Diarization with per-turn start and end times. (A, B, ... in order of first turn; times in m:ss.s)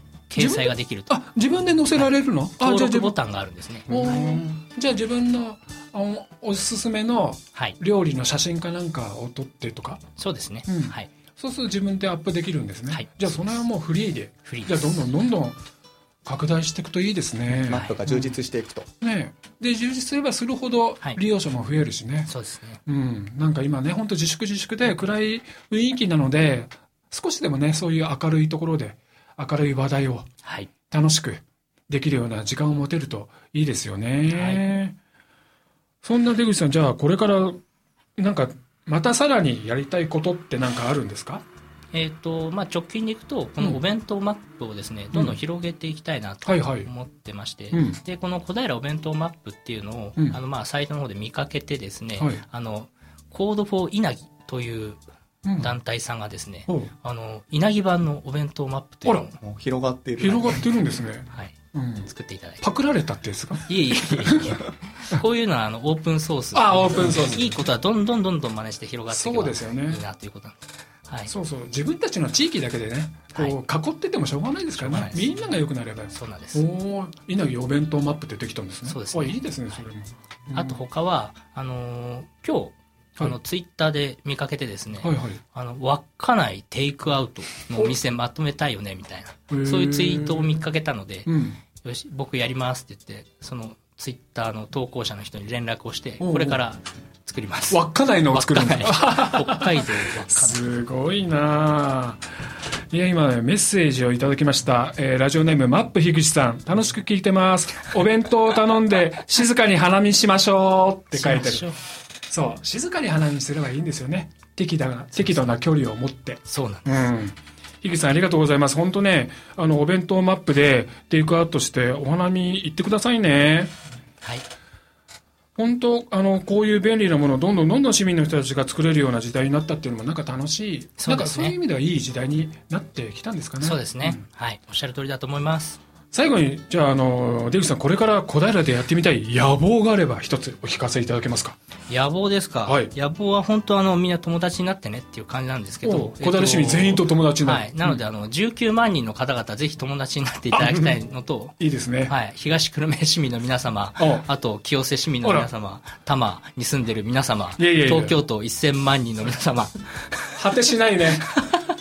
0:00.3-0:01.2 A
0:00.4-0:03.2 B
0:01.9-0:04.2 A
0:03.9-0:10.0 B
0:10.2-0:11.1 A
0:10.7-0:15.6 B
0:12.9-0:13.3 A
0:14.4-0:15.0 A
0:16.2-0:18.4 B
0:17.6-0:18.9 C
0:19.0-0:22.3 B
0:22.3-0:22.8 A
0:22.9-0:30.3 B
0:30.4-0:30.7 A
0:30.9-0:35.0 B
0:34.3-0:34.6 A
0:36.0-0:37.6 B
0:38.2-0:41.4 B
0:41.9-0:55.0 A
0:46.4-0:46.9 B
0:47.7-0:48.0 B
0:55.4-0:55.7 B
0:55.6-0:59.4 A
0:59.4-1:00.6 C
1:00.2-1:02.1 B
1:02.1-1:02.6 A
1:02.6-1:03.7 B
1:03.7-1:11.3 A
1:04.2-1:04.6 B
1:06.5-1:07.6 B
1:09.1-1:10.0 B
1:11.3-1:20.8 B
1:14.8-1:15.3 A
1:16.1-1:16.6 A
1:18.9-1:19.8 A
1:20.5-1:40.7 A
1:25.0-1:25.4 B
1:29.5-1:30.6 B
1:31.3-1:31.6 B
1:36.2-1:36.6 B
1:37.7-1:42.2 B
1:42.9-1:51.7 B
1:51.1-1:51.8 A
1:52.3-2:03.7 B
1:55.2-1:55.5 A
1:56.5-1:57.1 A
2:05.6-2:14.2 B
2:11.0-2:11.6 A
2:13.6-2:15.8 A
2:16.1-2:21.6 B
2:21.9-2:40.3 A
2:22.7-2:22.9 B
2:25.8-2:28.0 B
2:30.5-2:31.0 B
2:31.6-2:32.1 B
2:34.0-2:34.2 B
2:35.2-2:35.5 B
2:37.6-2:38.2 B
2:40.4-2:41.4 B